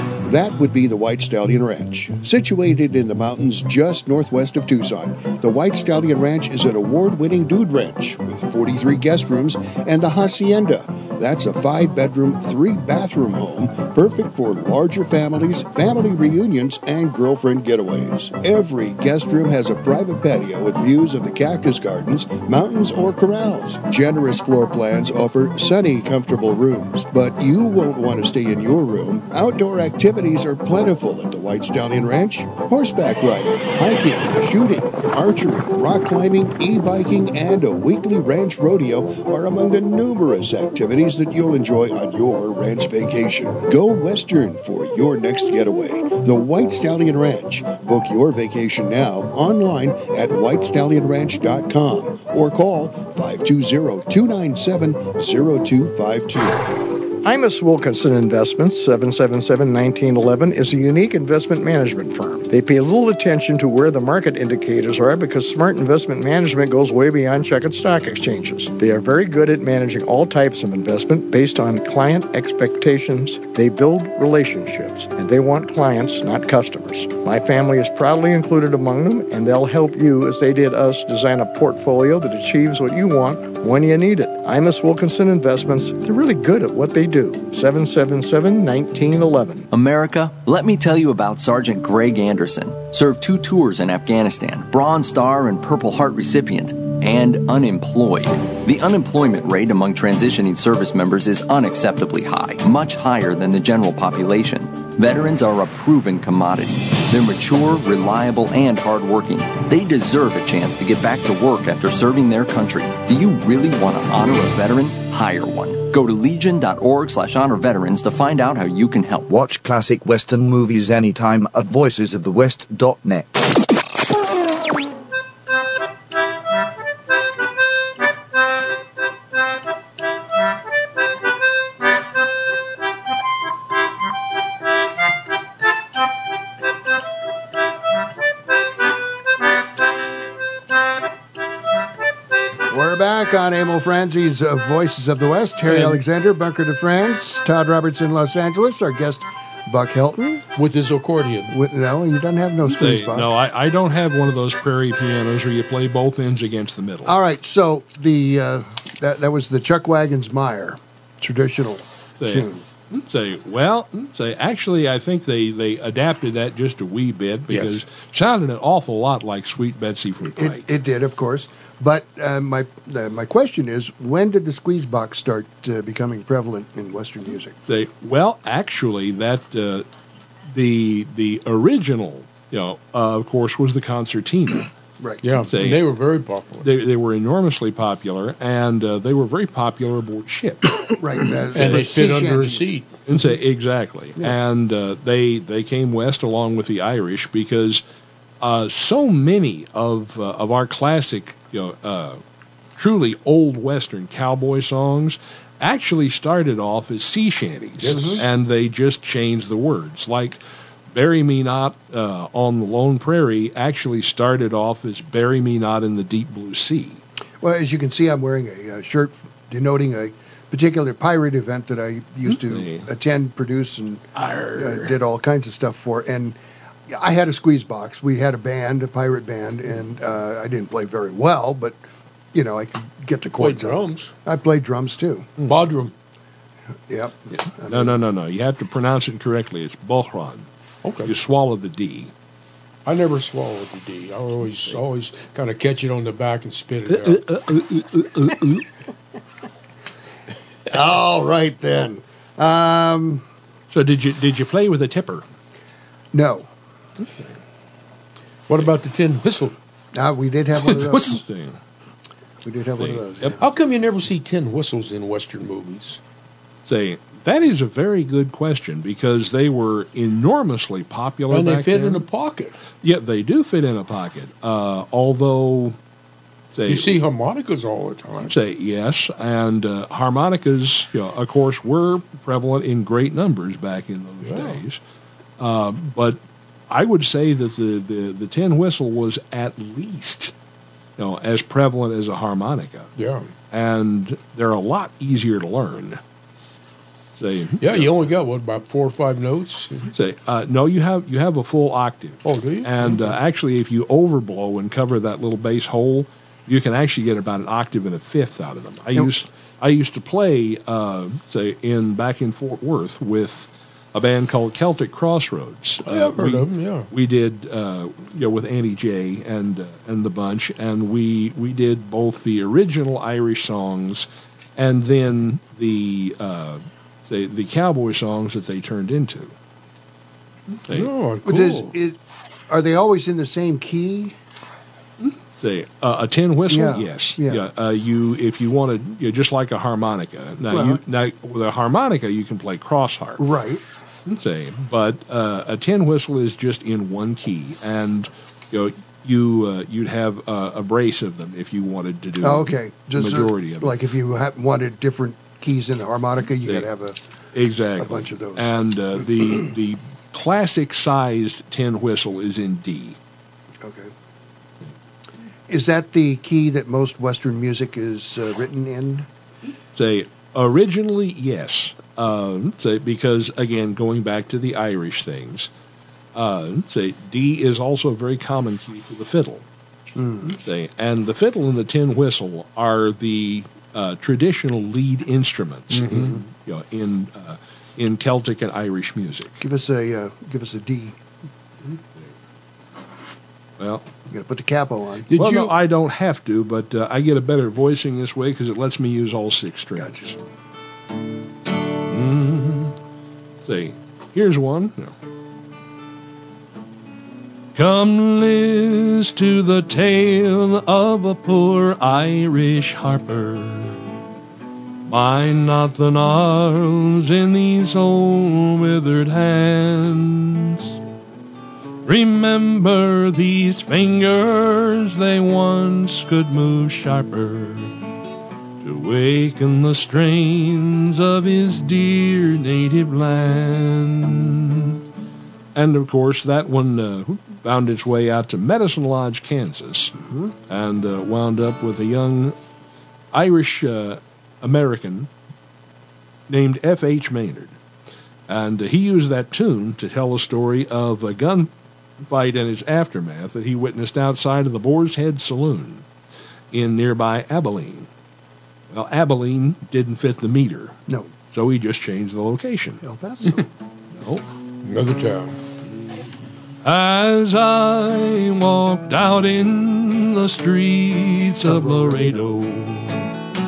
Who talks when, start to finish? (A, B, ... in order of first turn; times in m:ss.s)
0:00.2-0:56.7 A
0:57.2-1:29.7 B
1:29.7-1:59.3 C
1:59.3-2:03.3 D
2:22.7-2:30.4 A
2:25.6-2:26.0 E
2:30.6-2:31.5 E
2:31.5-2:33.3 A
2:32.6-2:37.2 F
2:37.0-2:42.6 A
2:42.2-2:50.7 F
2:47.5-2:47.8 E
2:50.3-2:57.5 A
2:57.7-2:59.9 F
3:00.5-3:04.7 F
3:05.2-3:06.7 E
3:05.5-3:05.8 F
3:06.6-3:10.7 F
3:11.0-3:12.7 A
3:11.5-3:11.9 F
3:11.5-3:12.9 E
3:13.1-3:17.8 F
3:18.4-3:22.2 F
3:22.8-3:37.0 F
3:27.8-3:28.2 E
3:27.8-3:28.2 A
3:37.4-3:46.4 A
3:42.2-3:42.9 F
3:44.1-3:44.9 F
3:46.9-3:51.8 A
3:52.3-3:55.3 A
3:53.4-3:54.1 E
3:55.4-3:55.9 E
3:56.9-3:57.9 A
3:57.6-4:00.5 F
4:00.8-4:01.1 E
4:01.0-4:02.1 F
4:02.8-4:07.2 E
4:06.9-4:08.6 F
4:10.7-4:13.2 A
4:13.7-4:15.2 F
4:16.1-4:16.5 A
4:18.5-4:19.6 E
4:19.9-4:21.2 A
4:20.6-4:21.2 E
4:21.0-4:21.6 F
4:22.4-4:23.4 A
4:22.8-4:23.4 F
4:23.4-4:26.0 E
4:26.6-4:32.0 F
4:31.3-4:32.6 E
4:32.8-4:35.8 F
4:36.5-4:37.0 F
4:36.6-4:38.3 E
4:38.3-4:44.8 F
4:44.2-4:44.6 E
4:45.4-4:50.3 F
4:51.0-4:52.9 F
4:53.0-4:53.3 E
4:53.5-4:56.0 F
4:57.2-4:57.9 F
4:57.6-4:59.9 E
4:59.9-5:29.3 F
5:02.2-5:03.1 E
5:15.8-5:16.9 E
5:30.7-5:31.7 E
5:31.2-5:32.0 A
5:32.5-5:34.2 A
5:35.0-5:43.2 F
5:36.5-5:37.4 A
5:40.5-5:40.8 A
5:43.2-5:43.6 A
5:44.0-5:53.8 F
5:52.2-5:57.0 A
5:57.3-6:03.0 F
5:57.8-5:58.5 A
6:03.6-6:03.9 A
6:05.5-6:09.0 A
6:09.7-6:15.5 F
6:16.1-6:19.4 F
6:19.9-6:20.4 A
6:20.3-6:29.4 F
6:25.7-6:26.1 E
6:25.9-6:26.2 A
6:29.4-6:31.0 A
6:33.6-6:33.9 F
6:34.1-6:35.1 A
6:35.1-6:35.5 E
6:35.2-6:40.2 F
6:39.8-6:40.2 A
6:41.9-6:42.8 F
6:43.4-6:45.0 F
6:47.5-6:53.8 F
6:54.9-7:00.8 F
7:01.8-7:07.7 F
7:08.6-7:14.8 F
7:15.5-7:19.9 F
7:20.1-7:20.3 A
7:20.5-7:22.4 F
7:23.1-7:25.1 F
7:26.3-7:27.6 F
7:28.3-7:35.8 F
7:36.5-7:37.9 F
7:38.7-7:40.8 F
7:41.3-7:42.8 F
7:42.8-7:43.5 A
7:43.9-7:44.2 F
7:44.6-7:45.3 E
7:46.6-7:53.1 F